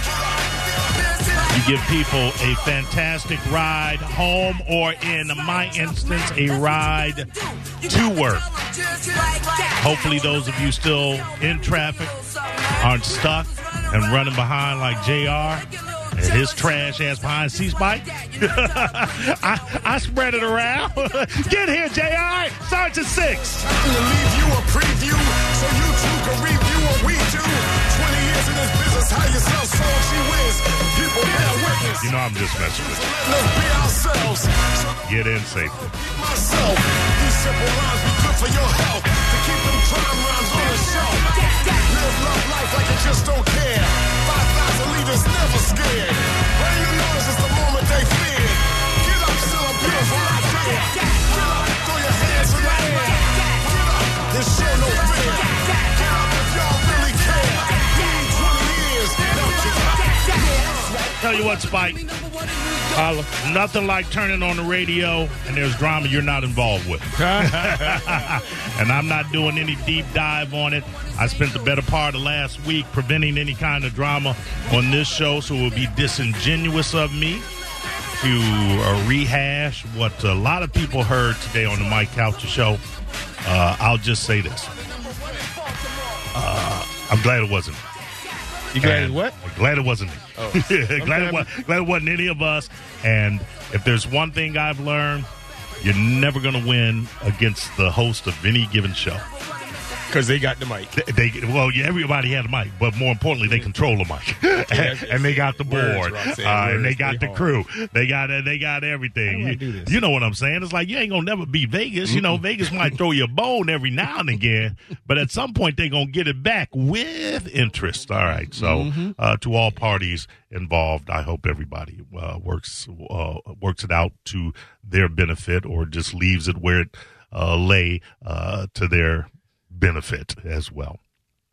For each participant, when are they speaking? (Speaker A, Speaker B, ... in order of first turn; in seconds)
Speaker A: 0.3-1.4, 23.6-35.1, 35.7-61.0
Speaker B: 1.5-7.3, 7.8-8.5, 9.7-12.1, 12.8-23.6, 32.0-33.0, 35.0-35.9, 61.2-62.0, 63.4-77.4, 78.2-82.8, 83.4-84.7, 86.3-87.8, 88.8-95.3, 95.8-99.2, 100.9-131.0
Speaker C: 62.9-63.3, 67.2-68.2, 88.7-89.3, 90.3-91.5, 100.1-100.9, 104.6-107.5, 109.2-110.0, 112.1-112.4, 118.5-119.1